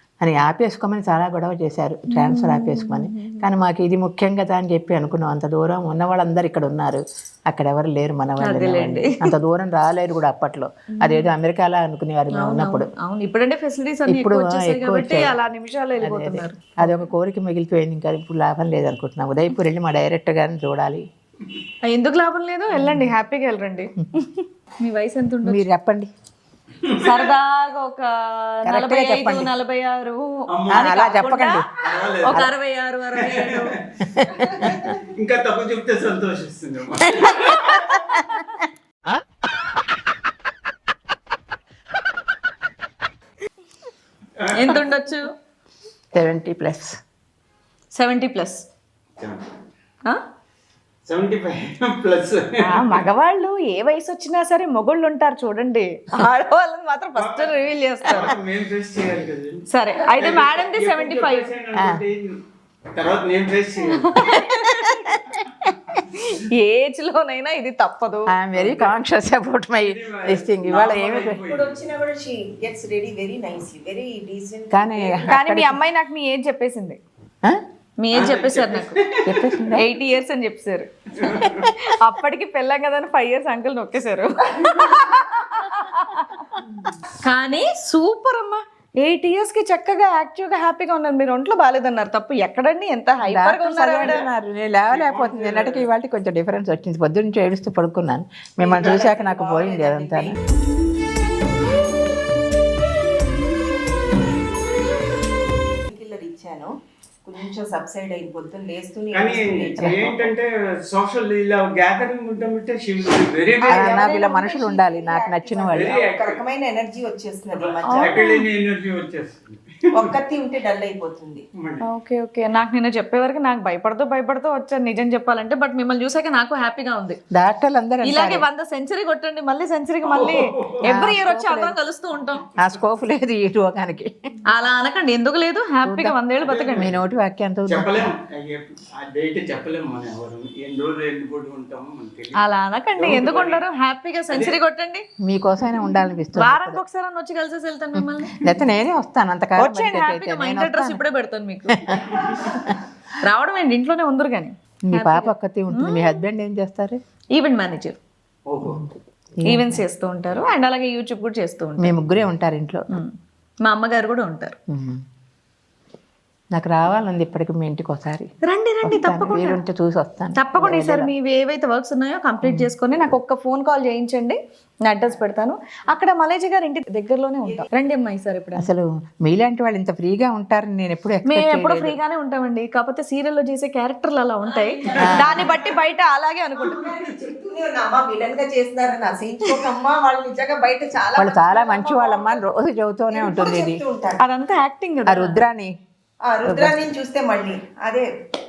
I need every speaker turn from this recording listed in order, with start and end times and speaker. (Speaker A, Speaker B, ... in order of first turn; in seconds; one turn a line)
Speaker A: 0.2-12.9
Speaker B: 2.1-3.5
Speaker B: 8.4-9.3
Speaker B: 11.0-11.3
Speaker B: 12.3-17.1
Speaker A: 14.1-15.4
Speaker A: 16.0-21.0
Speaker B: 21.8-25.6
Speaker A: 22.7-23.1
Speaker A: 25.4-26.1
Speaker B: 26.9-33.8
Speaker A: 28.6-29.5
Speaker C: 30.5-31.0
Speaker A: 30.7-31.7
Speaker C: 31.8-32.4
Speaker C: 33.1-37.7
Speaker A: 34.2-34.9
Speaker B: 34.3-34.7
Speaker B: 37.4-38.6
Speaker C: 44.4-44.9
Speaker B: 44.5-45.3
Speaker A: 46.1-46.9
Speaker B: 47.9-48.6
Speaker C: 49.2-49.5
Speaker C: 51.1-53.1
Speaker B: 52.6-58.3
Speaker C: 57.2-62.4
Speaker B: 59.7-61.5
Speaker A: 61.8-62.0
Speaker C: 63.0-64.3
Speaker B: 63.9-65.0
Speaker A: 64.7-65.3
Speaker B: 66.1-68.4
Speaker A: 68.3-71.4
Speaker C: 68.5-69.0
Speaker C: 69.8-71.8
Speaker D: 71.2-75.4
Speaker A: 74.7-75.8
Speaker B: 75.3-77.0
Speaker B: 78.0-79.0
Speaker C: 78.1-79.5
Speaker A: 79.2-79.8
Speaker B: 79.8-80.9
Speaker C: 81.2-81.7
Speaker B: 81.7-86.6
Speaker B: 87.2-94.2
Speaker A: 93.2-100.3
Speaker C: 94.9-95.9
Speaker D: 98.6-100.4
Speaker D: 105.9-106.7
Speaker D: 107.2-110.3
Speaker C: 109.1-114.1
Speaker D: 113.6-118.3
Speaker A: 113.6-116.0
Speaker C: 115.7-116.5
Speaker C: 117.5-120.1
Speaker B: 117.8-118.5
Speaker D: 119.9-121.4
Speaker C: 121.6-121.9
Speaker B: 121.8-127.2
Speaker A: 127.3-128.4
Speaker B: 128.0-132.5
Speaker C: 130.1-131.0
Speaker A: 130.9-131.8
Speaker A: 132.6-134.1
Speaker B: 134.4-136.8
Speaker A: 135.8-136.2
Speaker C: 136.4-137.0
Speaker A: 136.7-138.0
Speaker C: 137.7-142.4
Speaker B: 142.3-145.1
Speaker C: 143.0-143.6
Speaker C: 144.3-144.6
Speaker A: 145.2-146.8
Speaker B: 146.3-148.4
Speaker A: 148.0-151.0
Speaker B: 149.6-156.2
Speaker A: 151.7-152.8
Speaker C: 151.9-152.5
Speaker A: 154.9-157.0
Speaker B: 157.3-158.0
Speaker C: 158.5-158.9
Speaker A: 159.4-159.8
Speaker B: 159.4-162.0
Speaker A: 161.8-162.9
Speaker B: 162.9-164.6
Speaker A: 164.7-165.0
Speaker A: 166.5-168.3
Speaker B: 168.5-169.6
Speaker A: 168.8-171.1
Speaker B: 170.3-178.7
Speaker A: 172.4-172.7
Speaker A: 178.6-182.0
Speaker B: 181.2-186.8
Speaker D: 184.4-185.9
Speaker A: 185.0-185.5
Speaker D: 186.6-192.4
Speaker A: 191.2-193.8
Speaker D: 193.1-194.2
Speaker B: 194.2-195.4
Speaker A: 195.1-195.7
Speaker D: 196.2-198.1
Speaker B: 196.5-196.8